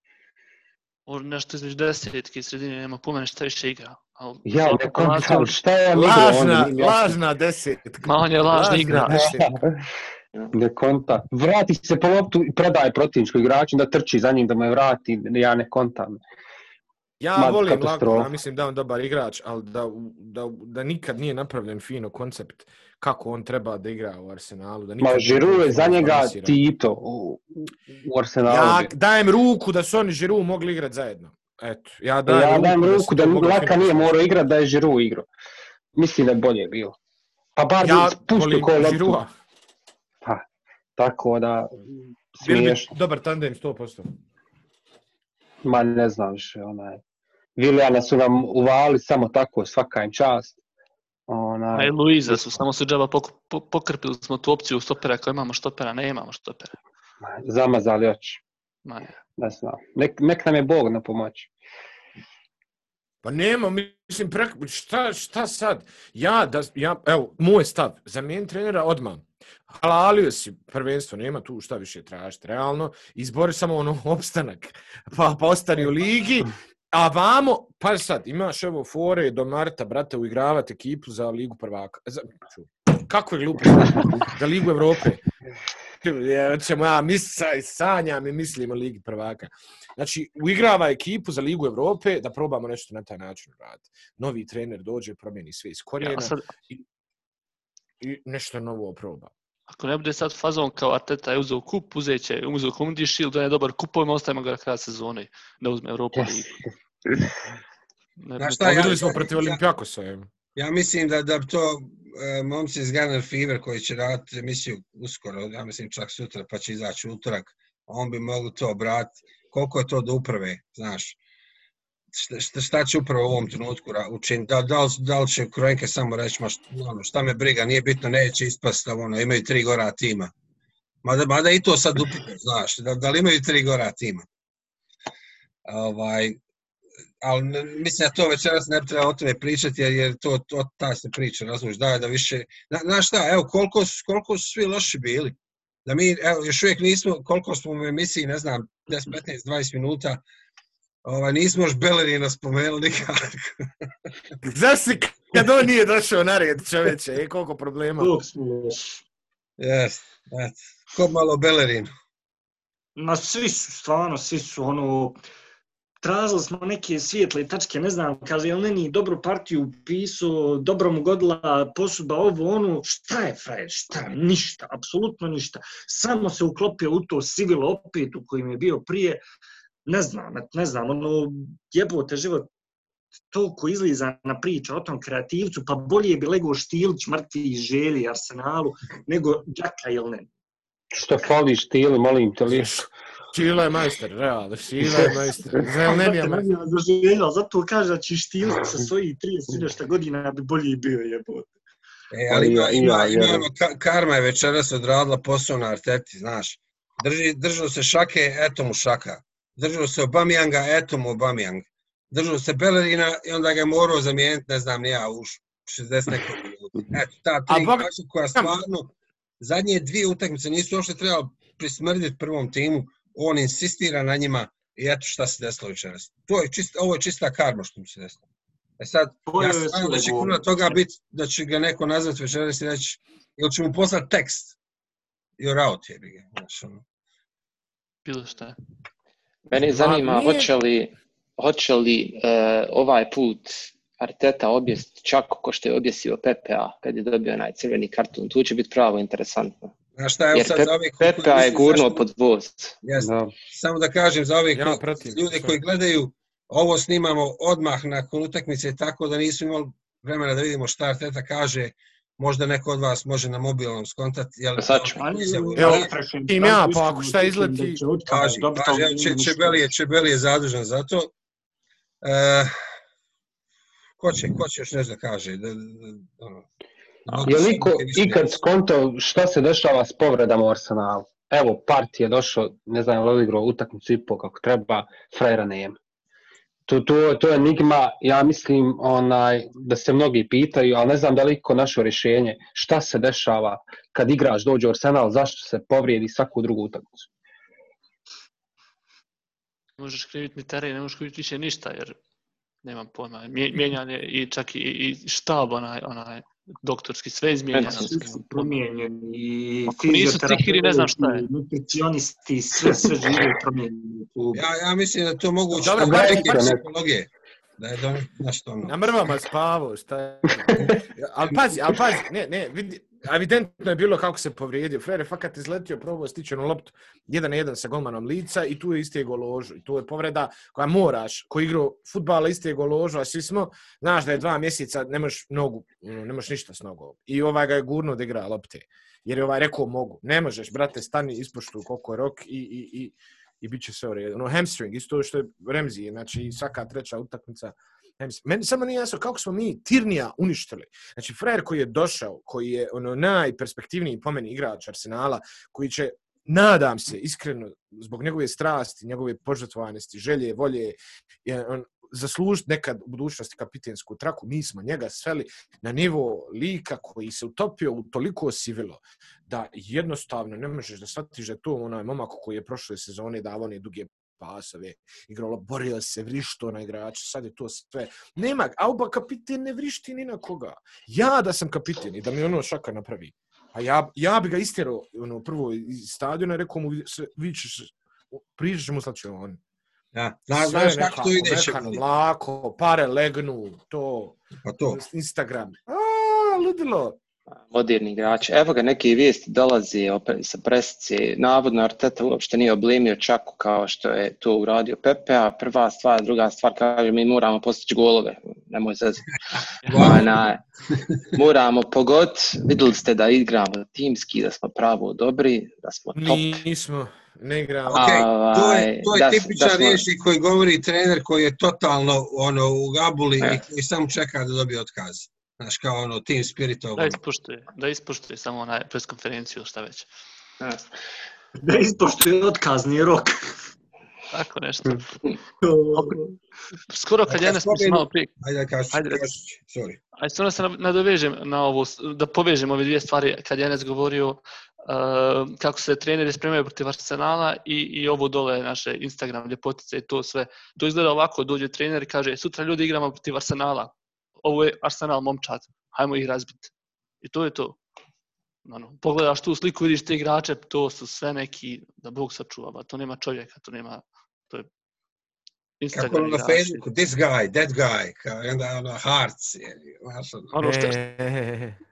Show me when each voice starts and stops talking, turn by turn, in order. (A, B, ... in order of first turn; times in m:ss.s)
0:01.1-0:05.6 A
0:04.5-0:07.2 B
0:06.0-0:09.6 C
0:08.0-0:09.4 A
0:09.1-0:09.8 B
0:10.5-0:16.2 B
0:17.2-0:26.6 C
0:17.4-0:18.3 B
0:25.0-0:28.9 B
0:28.5-0:34.1 C
0:32.3-0:35.3 B
0:36.0-0:37.0 B
0:37.6-0:39.2 B
0:37.8-0:39.3 C
0:41.0-0:41.8 B
0:42.3-0:42.9 B
0:42.4-0:44.1 C
0:45.6-0:47.0 B
0:47.6-0:50.6 B
0:51.3-0:52.6 B
0:51.7-0:56.8 A
0:57.2-0:58.4 B
0:58.8-0:59.1 A
0:59.4-1:01.5 B
1:03.2-1:25.2 C
1:26.0-1:36.8 C
1:36.0-1:36.4 A
1:38.0-1:39.3 C
1:39.7-1:46.6 A
1:48.2-1:49.0 A
1:48.4-1:49.6 D
1:48.6-1:50.3 C
1:50.6-2:01.2 D
2:02.1-2:10.3 D
2:11.0-2:14.3 D
2:15.7-2:16.4 D
2:17.2-2:30.2 D
2:31.0-2:33.6 D
2:34.4-2:38.1 C
2:38.0-2:39.0 E
2:39.6-2:41.9 D
2:43.0-2:45.2 E
2:46.0-2:59.2 E
2:59.9-3:02.5 E
3:03.3-3:10.3 E
3:10.9-3:12.9 B
3:12.5-3:16.5 C
3:15.8-3:21.5 E
3:22.1-3:48.2 D
3:22.3-3:23.5 B
3:37.5-3:38.5 C
3:48.8-3:54.6 D
3:49.3-3:50.8 E
3:55.4-3:56.8 D
3:58.0-3:58.6 A
3:59.5-4:09.7 F
3:59.6-4:00.5 C
4:10.0-4:12.1 D
4:10.3-4:12.8 F
4:12.8-4:25.9 D
4:13.0-4:13.3 B
4:14.5-4:15.6 C
4:24.6-4:25.0 F
4:25.0-4:29.6 E
4:25.6-4:27.8 C
4:28.1-4:31.1 D
4:32.0-4:32.6 D
4:34.0-4:36.4 D
4:37.1-4:38.4 D
4:37.2-4:45.8 B
4:46.7-4:57.1 B
4:59.8-5:02.0 A
5:02.6-5:08.5 A
5:07.5-5:08.1 F
5:07.8-5:14.4 E
5:09.7-5:11.2 A
5:14.3-5:18.8 D
5:15.6-5:16.6 C
5:15.7-5:16.6 B
5:18.6-6:29.4 C
6:29.9-6:31.8 D
6:30.3-6:34.2 C
6:34.4-6:34.8 D
6:34.7-6:37.0 C
6:37.5-6:49.1 F
6:49.6-6:50.0 A
6:49.7-6:50.2 D
6:49.7-6:50.4 F
6:51.1-6:56.4 F
6:55.9-6:57.9 C
6:57.7-7:07.0 D
6:57.7-6:59.8 F
7:06.8-7:09.9 A
7:10.4-7:10.7 F
7:11.4-7:13.5 E
7:14.1-7:15.1 A
7:15.4-7:16.1 E
7:16.7-7:18.1 A
7:17.1-7:19.8 D
7:18.7-7:19.1 A
7:20.0-7:36.5 A
7:37.0-7:37.6 A
7:38.4-7:44.5 A
7:45.6-7:46.6 A
7:45.7-7:50.4 D
7:50.3-7:50.8 A
7:50.4-7:51.6 C